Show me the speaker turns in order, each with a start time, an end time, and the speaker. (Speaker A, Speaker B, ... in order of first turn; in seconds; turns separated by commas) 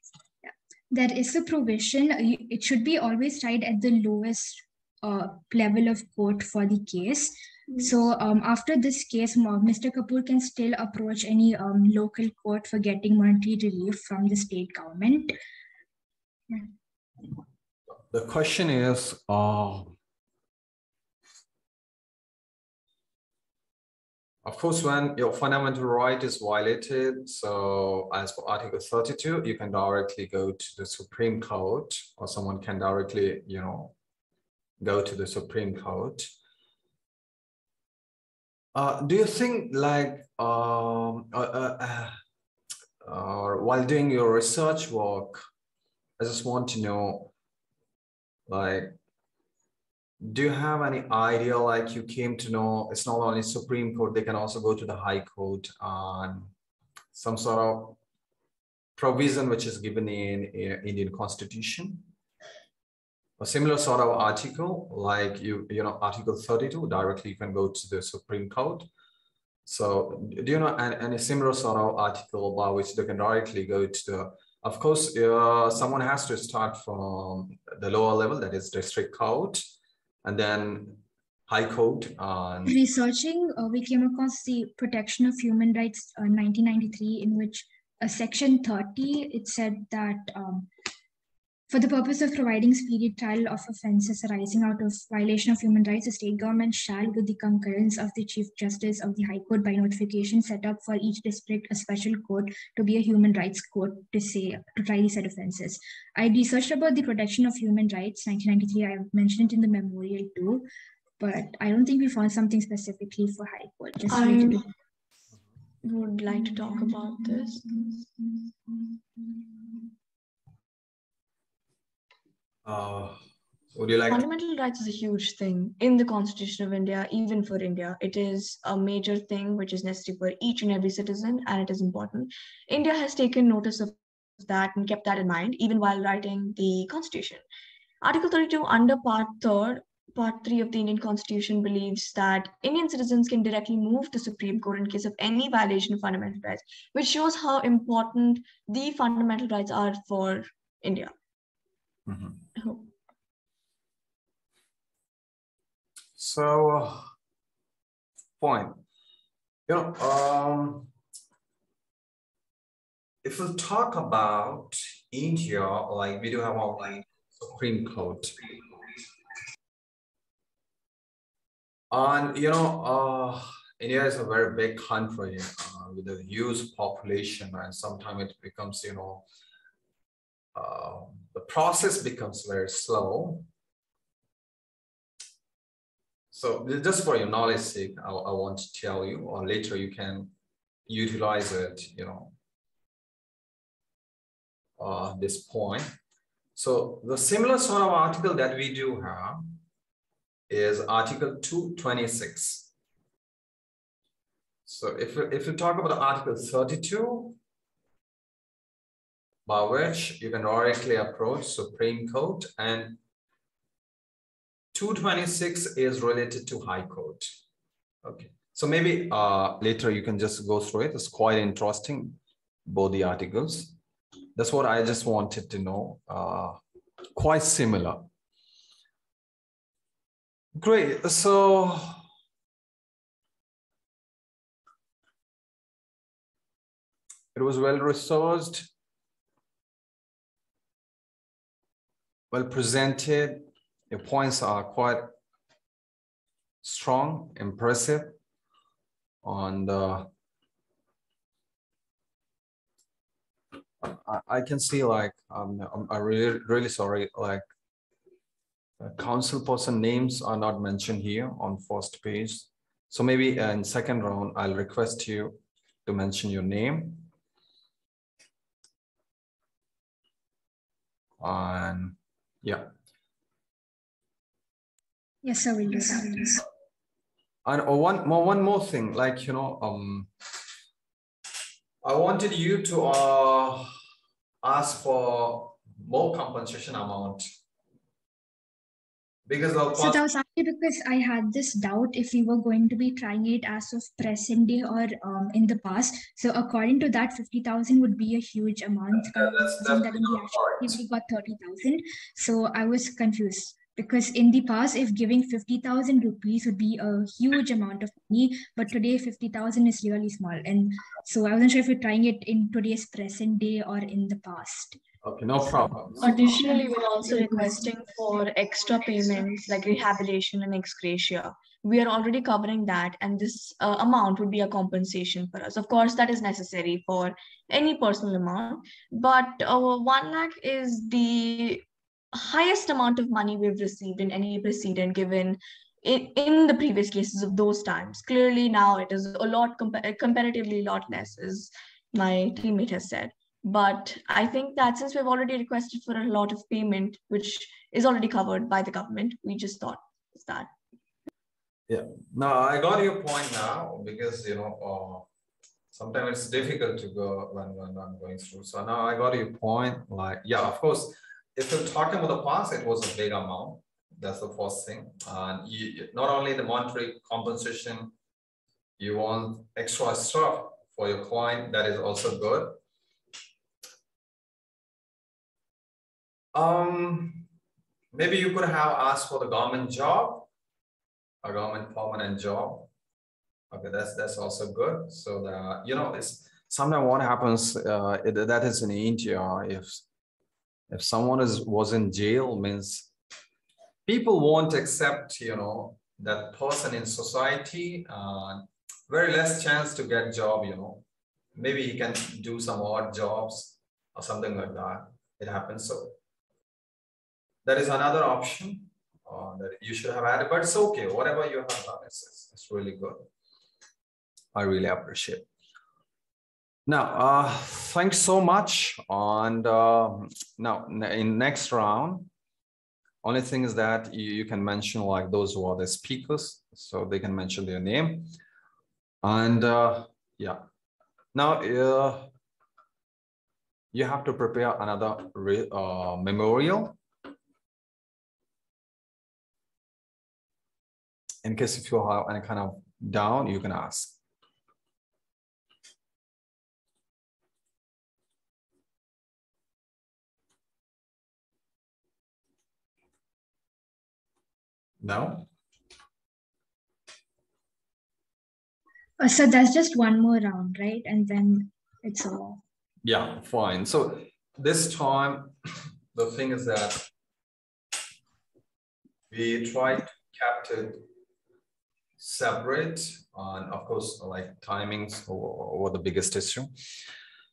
Speaker A: 0.9-15.4, Speaker B: 18.1-19.9, Speaker B: 24.4-34.0, Speaker B: 34.8-36.3, Speaker B: 38.8-42.1, Speaker B: 43.0-45.4, Speaker B: 46.2-47.3, Speaker B: 48.5-49.0, Speaker B: 50.2-56.5, Speaker B: 57.1-58.0, Speaker B: 59.0-62.1, Speaker B: 63.4-68.9, Speaker B: 69.7-79.6, Speaker B: 80.2-82.8, Speaker A: 82.7-90.7, Speaker A: 91.7-110.7, Speaker A: 111.2-114.7, Speaker C: 114.1-114.7, Speaker C: 115.8-118.1, Speaker B: 122.7-124.2, Speaker C: 124.1-137.4, Speaker C: 138.0-151.1, Speaker B: 152.1-152.4, Speaker C: 152.6-152.9, Speaker B: 156.2-157.1, Speaker B: 158.4-158.8, Speaker B: 159.7-160.9, Speaker B: 163.2-168.6, Speaker B: 171.9-179.3, Speaker B: 180.6-183.5, Speaker B: 186.3-190.3, Speaker B: 190.9-192.3, Speaker B: 194.8-195.9, Speaker B: 196.6-199.6, Speaker B: 200.5-202.7, Speaker B: 204.7-207.4, Speaker B: 209.5-213.0, Speaker B: 214.7-217.3, Speaker B: 218.0-223.8, Speaker B: 224.4-226.6, Speaker B: 227.2-228.1, Speaker B: 230.6-232.0, Speaker B: 237.3-238.7, Speaker B: 242.3-245.2, Speaker B: 246.6-248.2, Speaker B: 249.2-250.1, Speaker B: 253.8-257.4, Speaker B: 258.8-267.1, Speaker B: 271.2-272.7, Speaker A: 275.2-276.4, Speaker B: 277.4-280.1, Speaker B: 281.8-283.7, Speaker B: 284.4-287.2, Speaker B: 289.3-290.1, Speaker A: 289.8-314.8, Speaker B: 298.9-300.8, Speaker B: 315.0-316.2, Speaker C: 316.0-350.5, Speaker A: 316.3-317.6, Speaker B: 351.7-355.1, Speaker B: 355.7-367.9, Speaker B: 368.8-372.6, Speaker B: 376.4-377.3, Speaker B: 377.9-380.3, Speaker B: 381.2-382.7, Speaker B: 383.5-389.8, Speaker B: 390.7-392.9, Speaker B: 393.9-406.0, Speaker B: 407.4-413.1, Speaker B: 414.4-415.3, Speaker B: 416.7-422.1, Speaker B: 423.0-428.1, Speaker B: 429.0-430.4, Speaker B: 431.1-432.1, Speaker B: 433.7-436.8, Speaker B: 441.2-444.0, Speaker B: 454.8-455.3, Speaker A: 459.0-462.4, Speaker B: 462.8-465.4, Speaker B: 465.9-466.9, Speaker B: 469.1-470.9, Speaker B: 472.0-476.5